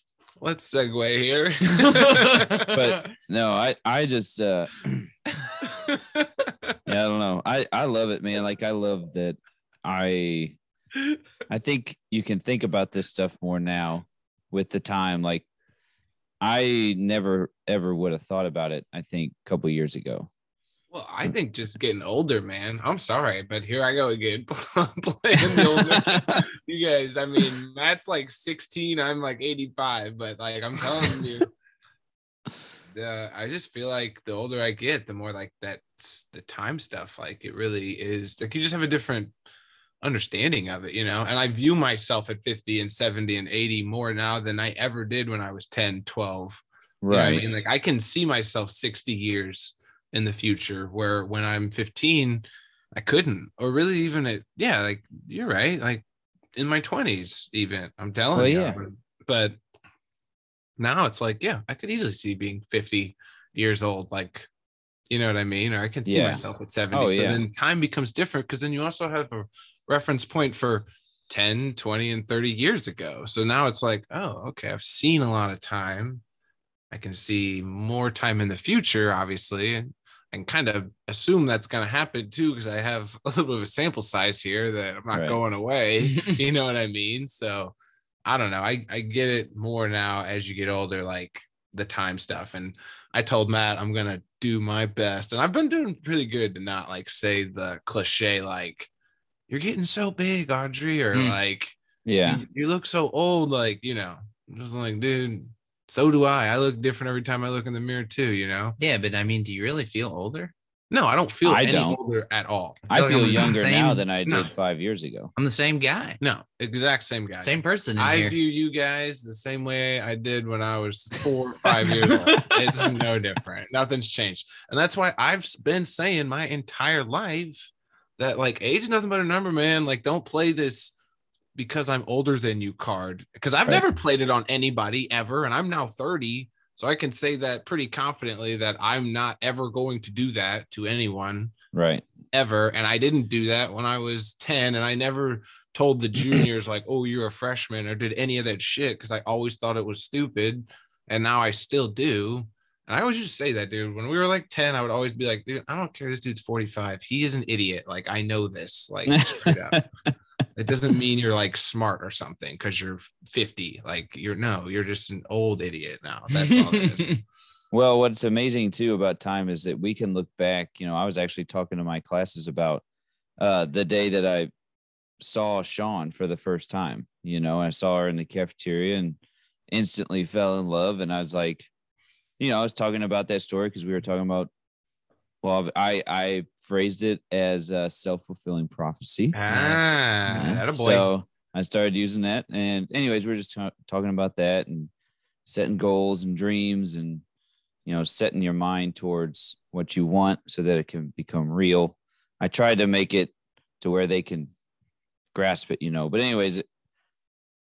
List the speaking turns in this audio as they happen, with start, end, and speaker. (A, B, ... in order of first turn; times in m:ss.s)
0:00.4-0:02.9 A
0:02.7-0:05.1 B
0:05.6-0:06.8 A
0:06.9-0:10.6 B
0:11.5-0:15.5 B
0:16.4-0:20.3 B
0:20.9-0:31.5 A
0:25.4-0:26.4 B
0:32.9-0:39.3 A
0:40.0-0:56.0 A
0:47.0-0:47.4 B
0:56.6-0:59.6 A
0:58.3-0:58.8 B
1:00.8-1:04.5 A
1:05.1-1:16.2 A
1:06.1-1:07.4 B
1:16.9-1:27.7 A
1:25.1-1:25.4 B
1:26.1-1:26.4 C
1:28.3-1:38.9 A
1:39.5-1:48.8 A
1:42.1-1:42.4 B
1:48.8-1:50.5 C
1:50.9-1:52.8 A
1:51.4-1:52.0 B
1:52.9-1:54.1 C
1:52.9-1:55.3 B
1:54.3-1:54.5 A
1:55.4-1:56.2 C
1:56.2-2:10.9 A
1:57.4-1:58.4 C
2:01.9-2:02.6 B
2:11.6-2:21.5 A
2:21.7-2:22.0 B
2:22.3-2:39.8 A
2:39.1-2:39.8 B
2:40.6-2:47.2 A
2:46.3-2:47.2 C
2:47.7-2:52.8 B
2:53.4-2:54.5 B
2:55.2-2:59.2 B
2:59.7-3:01.7 B
3:02.4-3:04.5 B
3:05.4-3:09.4 B
3:09.3-3:11.1 A
3:09.5-3:10.0 C
3:10.3-3:14.9 B
3:15.5-3:17.2 B
3:17.9-3:24.5 B
3:25.3-3:26.6 B